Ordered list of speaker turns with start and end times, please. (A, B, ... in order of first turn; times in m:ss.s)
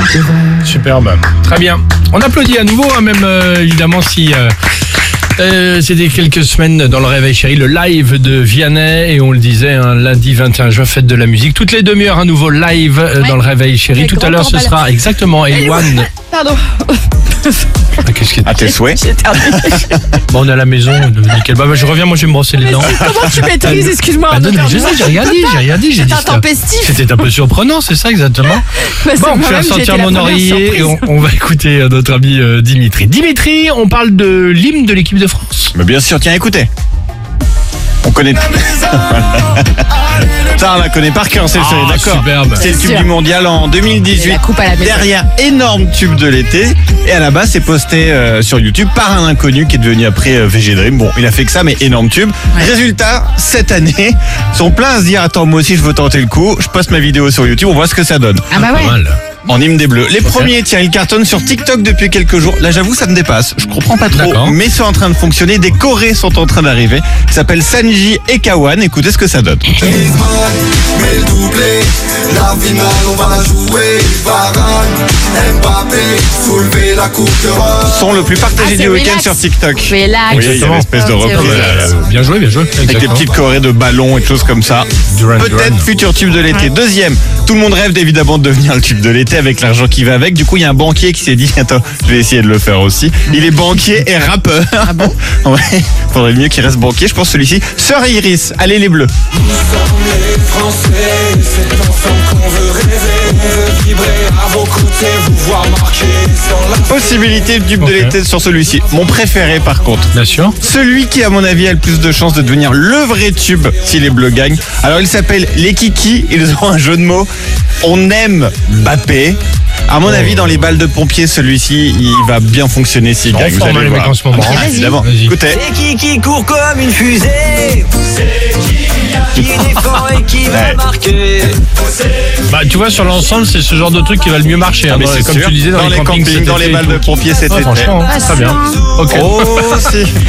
0:00.6-0:04.5 A
0:05.4-0:16.1 A
0:13.9-0:14.7 B
0:15.5-0:17.6 B
0:18.0-0:18.6 A
0:18.4-0:20.0 C
0:18.6-0:20.2 B
0:20.3-0:35.7 A
0:22.6-0:27.3 B
0:28.6-0:31.0 B
0:35.7-0:36.7 C
0:38.0-0:39.8 C
0:40.4-0:58.5 C
0:41.5-0:42.6 A
0:42.6-0:43.1 B
0:44.0-0:45.1 B
0:58.5-0:58.9 B
0:58.5-0:59.2 A
0:59.5-1:10.0 C
1:00.2-1:00.5 A
1:04.1-1:04.6 A
1:09.9-1:17.8 D
1:17.8-1:21.9 C
1:18.6-1:21.8 B
1:20.3-1:23.3 A
1:22.8-1:39.1 C
1:25.1-1:25.9 A
1:34.8-1:35.1 B
1:40.2-1:46.5 D
1:46.7-1:50.1 C
1:47.8-1:48.2 A
1:50.1-1:50.5 A
1:50.6-1:57.3 C
1:57.8-2:05.6 C
2:00.0-2:00.7 A
2:03.3-2:05.4 A
2:04.4-2:05.0 B
2:05.5-2:07.9 E
2:09.3-2:11.6 E
2:09.3-2:09.7 C
2:10.4-2:10.8 C
2:12.4-2:19.9 A
2:14.9-2:18.1 C
2:18.0-2:18.8 B
2:19.1-2:20.1 C